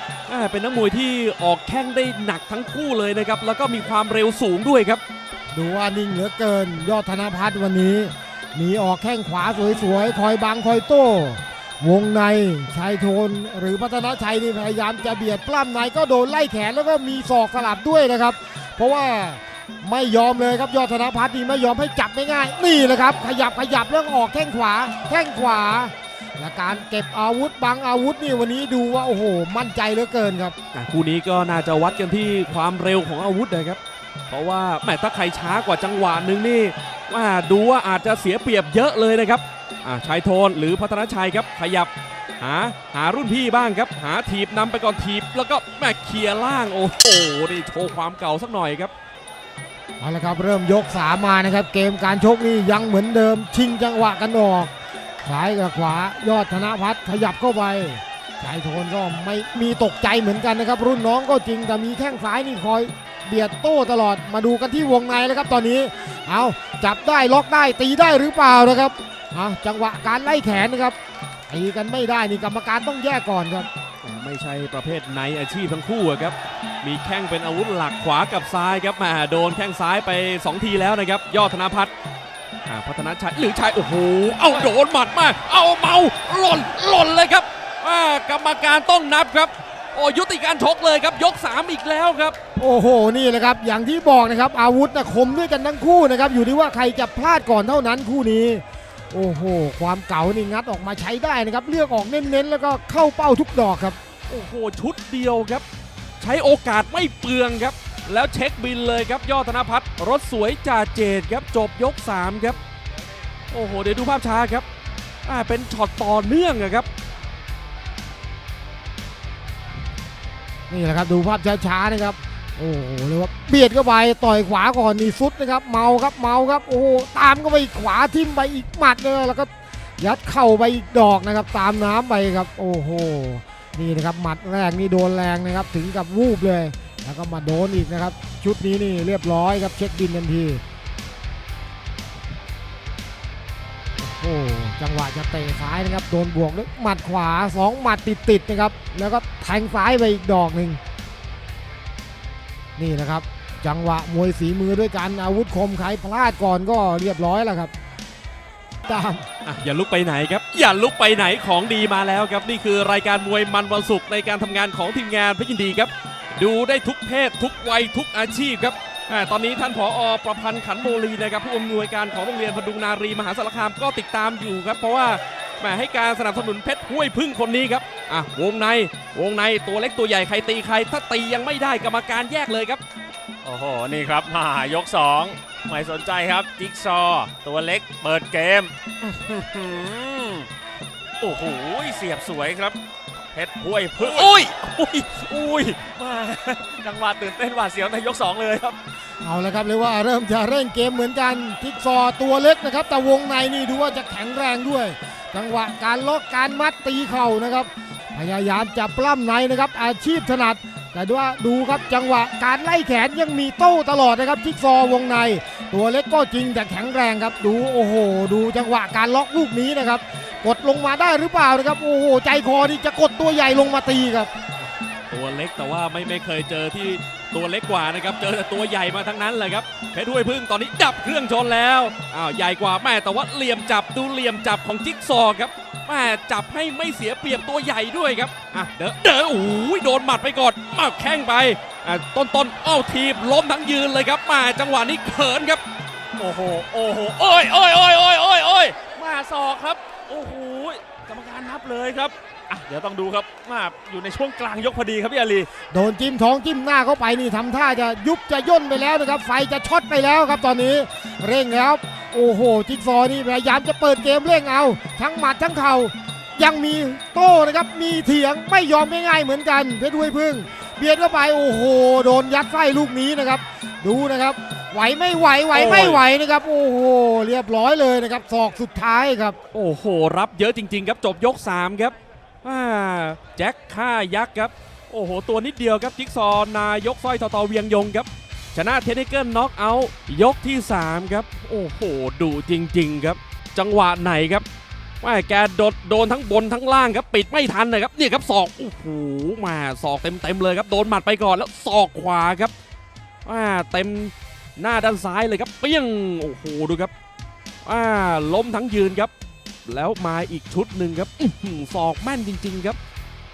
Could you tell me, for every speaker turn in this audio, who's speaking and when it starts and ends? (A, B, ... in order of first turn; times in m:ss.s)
0:00.3-0:05.0 A
0:05.5-0:30.6 B
0:30.7-0:48.9 A
0:50.0-0:54.7 B
0:55.2-1:11.0 B
1:11.5-1:13.7 B
1:14.0-1:21.9 A
1:22.7-1:32.4 A
1:32.6-1:44.0 B
1:44.3-1:45.6 A
1:46.2-1:52.6 A
1:53.5-1:54.6 A
1:55.3-1:56.9 A
2:00.7-2:20.6 B
2:24.0-2:30.8 B
2:32.8-2:37.7 B
2:38.9-2:39.2 B
2:39.4-3:02.8 A
3:03.4-3:10.5 C
3:11.2-3:12.8 C
3:13.3-3:18.8 C
3:19.2-3:44.3 B
3:45.1-4:05.6 A
4:06.2-4:15.5 C
4:15.7-4:39.4 B
4:35.5-4:36.0 A
4:39.5-4:54.4 A
4:55.0-5:02.5 A
5:03.2-5:06.9 A
5:07.6-5:09.1 A
5:09.7-5:12.8 A